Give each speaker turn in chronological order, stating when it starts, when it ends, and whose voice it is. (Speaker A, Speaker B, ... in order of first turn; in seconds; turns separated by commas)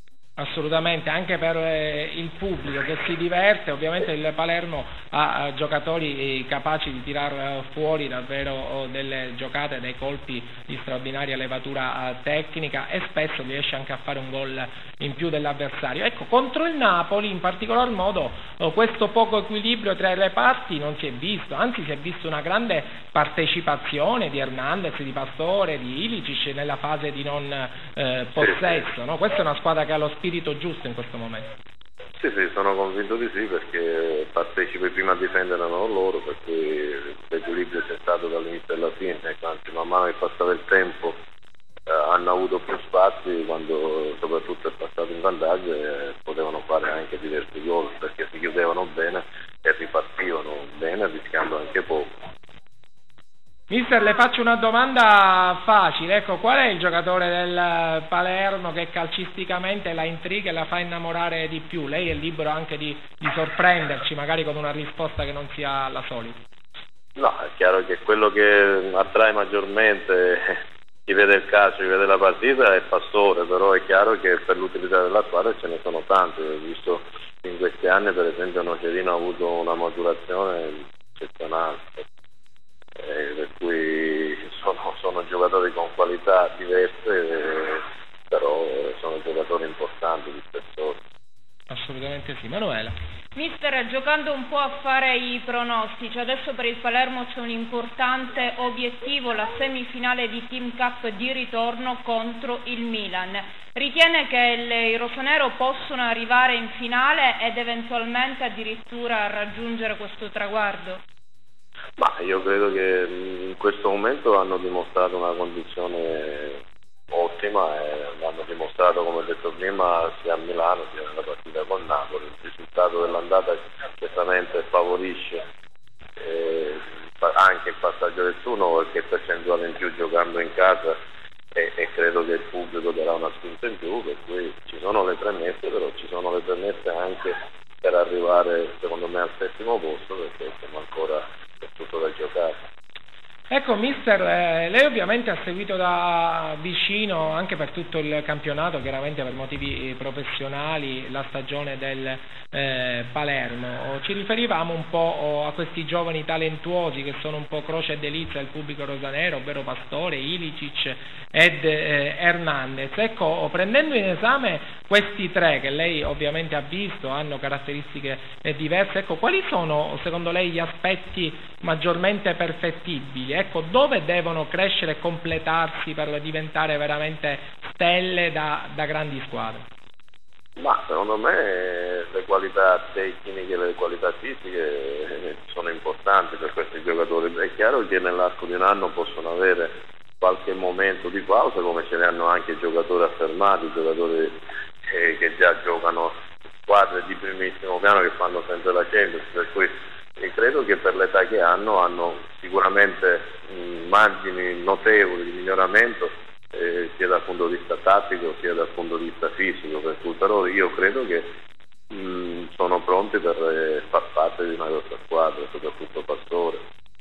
Speaker A: 0.4-31.5, Speaker B: 32.2-41.1, Speaker B: 41.9-52.1, Speaker A: 53.7-66.4, Speaker B: 67.2-82.0, Speaker B: 83.0-91.0, Speaker A: 91.7-92.9, Speaker C: 93.3-111.0, Speaker B: 112.0-116.6, Speaker B: 117.1-125.4, Speaker B: 126.2-130.9, Speaker B: 131.5-142.6, Speaker A: 143.5-179.6, Speaker B: 180.6-194.3, Speaker B: 194.8-196.1, Speaker B: 196.7-211.3, Speaker B: 211.9-216.6